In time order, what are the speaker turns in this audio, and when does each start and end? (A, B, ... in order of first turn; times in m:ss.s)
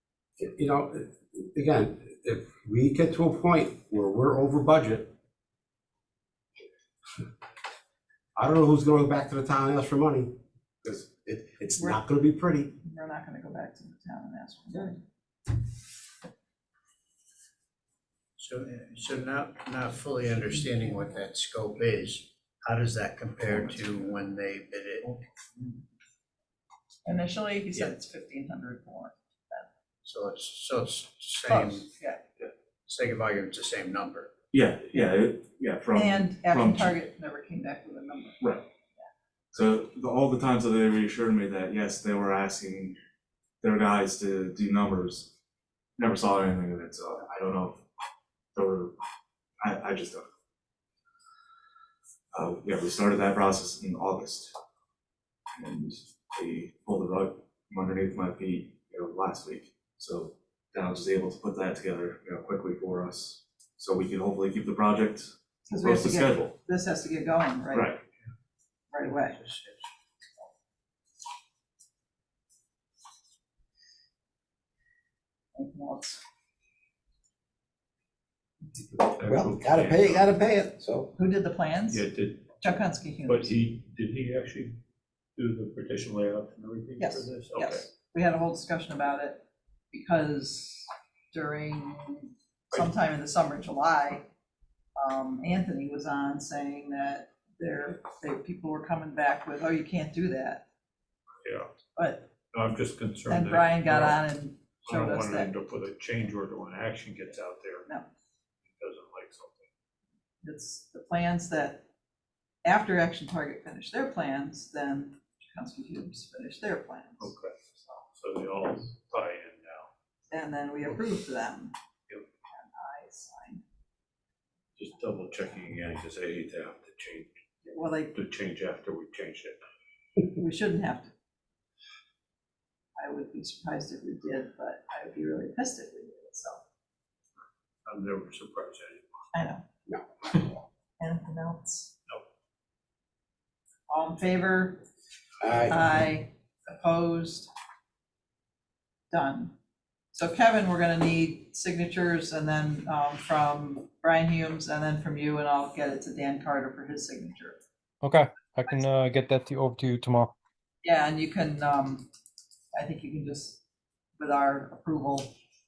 0:00.4-0:05.1 A
0:08.4-0:12.7 A
0:12.8-0:15.0 B
0:18.4-0:25.2 C
0:27.0-0:29.7 B
0:30.0-0:31.9 C
0:31.4-0:32.2 B
0:32.9-0:34.3 C
0:34.5-0:37.0 D
0:35.9-0:38.5 B
0:39.5-0:43.0 D
0:43.6-0:45.3 D
0:46.0-0:47.8 D
0:48.6-0:49.0 D
0:49.6-0:50.3 D
0:52.3-0:54.6 D
0:55.6-1:06.5 D
1:05.7-1:07.9 B
1:07.7-1:08.0 D
1:08.9-1:09.4 B
1:09.4-1:09.9 C
1:15.6-1:16.2 B
1:18.9-1:20.3 E
1:19.2-1:21.1 A
1:21.2-1:22.1 B
1:21.9-1:24.8 E
1:22.6-1:23.6 B
1:25.4-1:27.9 E
1:27.0-1:34.2 B
1:35.0-1:40.6 B
1:41.4-1:41.7 E
1:42.0-1:42.3 B
1:42.5-1:44.3 E
1:43.3-1:45.5 B
1:44.8-1:47.9 E
1:48.6-1:49.7 E
1:50.4-1:51.8 B
1:52.6-1:58.0 B
1:57.2-1:57.6 E
1:58.1-1:59.9 E
2:00.3-2:01.8 B
2:02.6-2:03.6 B
2:04.8-2:07.3 E
2:07.6-2:08.1 B
2:08.1-2:09.6 E
2:10.4-2:11.1 B
2:13.0-2:16.6 B
2:17.8-2:19.3 E
2:19.3-2:19.7 B
2:21.0-2:21.9 B
2:23.9-2:24.8 B
2:25.4-2:25.9 A
2:25.7-2:27.5 B
2:29.1-2:29.5 B
2:30.1-2:37.6 B
2:38.0-2:40.3 F
2:40.8-2:42.1 B
2:42.8-2:43.6 B
2:44.2-2:45.3 B